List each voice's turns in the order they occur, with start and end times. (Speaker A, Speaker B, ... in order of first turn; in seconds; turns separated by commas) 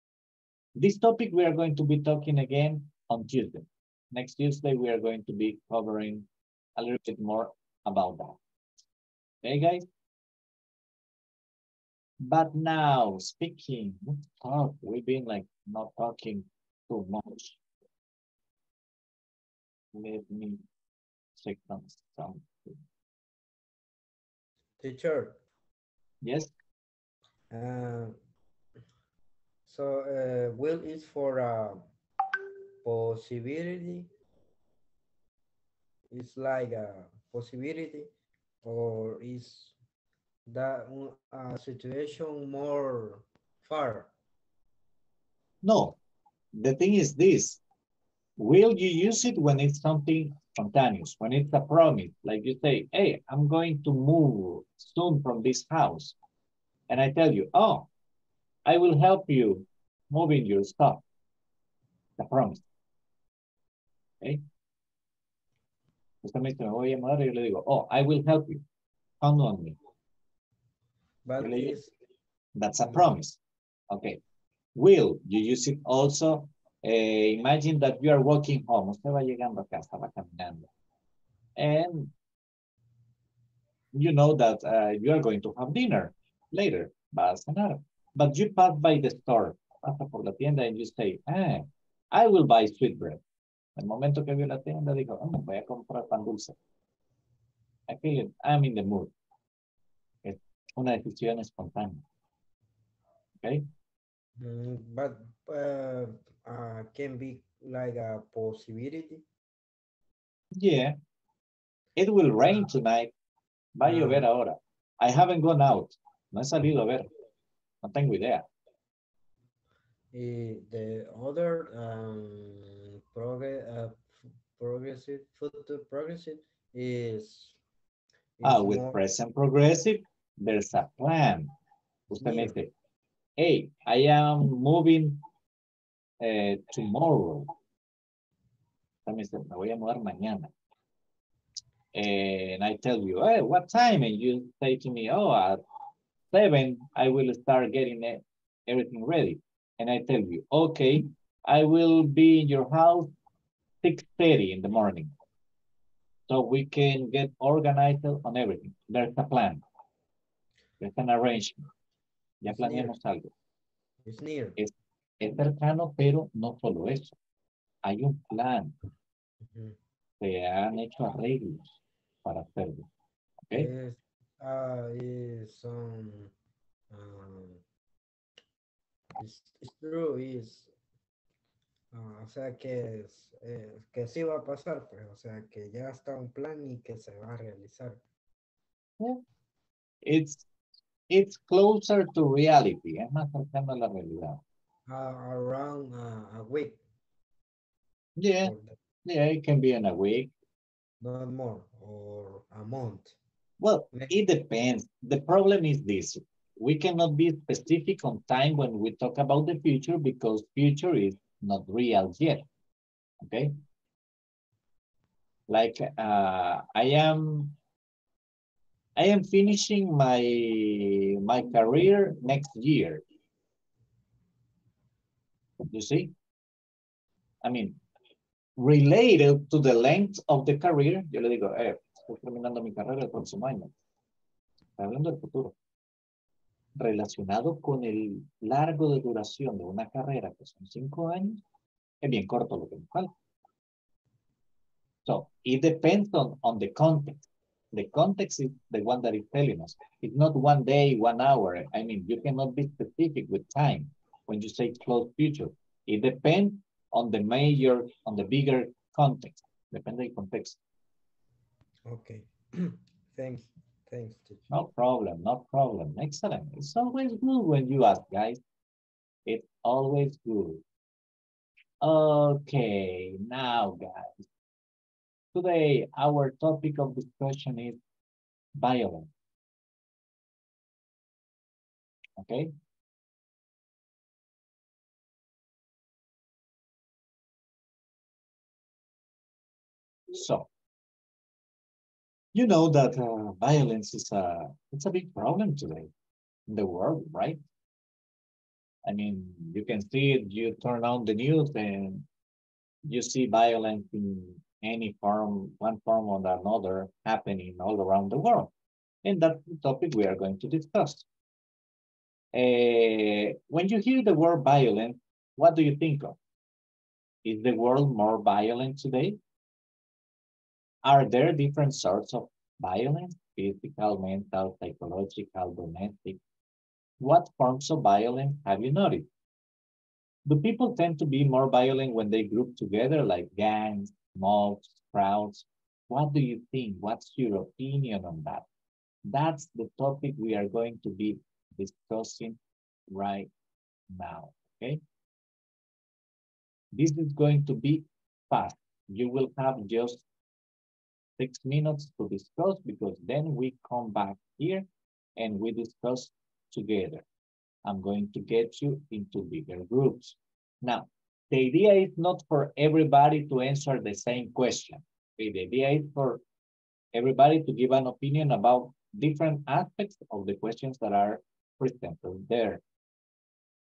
Speaker A: 0.8-6.2, Speaker A: 6.8-8.4, Speaker A: 9.4-9.8, Speaker A: 12.2-17.6, Speaker A: 19.9-20.6, Speaker A: 21.4-22.8, Speaker B: 24.8-25.4, Speaker A: 26.2-26.5, Speaker B: 27.5-28.1, Speaker B: 29.7-31.9, Speaker B: 32.8-34.1, Speaker B: 36.1-38.1, Speaker B: 38.6-39.7, Speaker B: 40.5-44.1, Speaker A: 45.6-46.0, Speaker A: 46.5-47.6, Speaker A: 48.4-56.1, Speaker A: 56.9-57.9, Speaker A: 58.6-61.0, Speaker A: 62.2-62.6, Speaker A: 66.2-68.6, Speaker A: 69.2-69.8, Speaker B: 71.2-71.9, Speaker A: 71.4-71.8, Speaker A: 72.5-73.4, Speaker A: 73.9-74.2, Speaker A: 74.8-80.7, Speaker A: 81.6-82.1, Speaker A: 83.9-93.2, Speaker A: 93.8-96.5, Speaker A: 97.9-99.1, Speaker A: 100.2-102.0, Speaker B: 104.4-109.2, Speaker A: 110.5-111.0, Speaker A: 112.0-113.1, Speaker A: 113.7-117.1, Speaker B: 113.8-114.2, Speaker A: 117.8-118.5, Speaker B: 120.1-127.6, Speaker B: 128.4-129.0, Speaker A: 128.4-131.5, Speaker A: 132.1-132.7, Speaker B: 132.1-132.5, Speaker A: 133.4-135.2, Speaker A: 136.2-137.5, Speaker A: 139.1-140.5, Speaker A: 141.9-145.6, Speaker A: 146.3-153.1, Speaker A: 153.8-155.1, Speaker A: 156.3-159.6, Speaker A: 160.8-161.6, Speaker A: 162.4-163.3, Speaker B: 162.5-162.9, Speaker B: 164.0-164.6, Speaker A: 164.6-167.1, Speaker A: 167.8-168.7, Speaker B: 169.4-169.8, Speaker A: 170.2-171.7, Speaker A: 172.2-172.9, Speaker B: 173.5-176.3, Speaker B: 176.9-177.6, Speaker B: 179.2-180.7, Speaker B: 181.9-188.0, Speaker A: 190.0-190.4, Speaker A: 191.1-194.4, Speaker B: 194.9-196.8, Speaker A: 198.2-198.5, Speaker B: 198.4-198.8, Speaker A: 199.1-200.3, Speaker B: 201.0-203.1, Speaker A: 203.6-212.4, Speaker A: 213.2-213.5, Speaker A: 215.5-217.6, Speaker A: 219.0-223.0, Speaker A: 225.7-226.1, Speaker A: 227.4-227.8, Speaker A: 228.6-233.7, Speaker A: 234.8-235.5, Speaker A: 236.8-241.4, Speaker A: 242.0-243.1, Speaker A: 245.1-260.6, Speaker B: 261.9-264.5, Speaker A: 264.5-268.4, Speaker A: 269.2-270.6, Speaker A: 271.8-274.2, Speaker A: 275.3-277.8, Speaker A: 278.6-279.1, Speaker A: 282.2-282.5, Speaker A: 290.1-290.5, Speaker A: 292.3-295.9, Speaker A: 296.5-297.4, Speaker A: 298.8-302.1, Speaker A: 302.9-308.5, Speaker A: 309.0-311.0, Speaker A: 312.3-316.1, Speaker A: 317.2-319.2, Speaker A: 320.8-326.2, Speaker A: 327.0-329.1, Speaker A: 330.2-338.4, Speaker A: 339.1-342.4, Speaker A: 342.9-343.3, Speaker A: 343.9-344.8, Speaker A: 346.7-350.0, Speaker A: 351.2-354.6, Speaker A: 355.2-357.0, Speaker A: 357.6-366.2, Speaker A: 366.9-372.6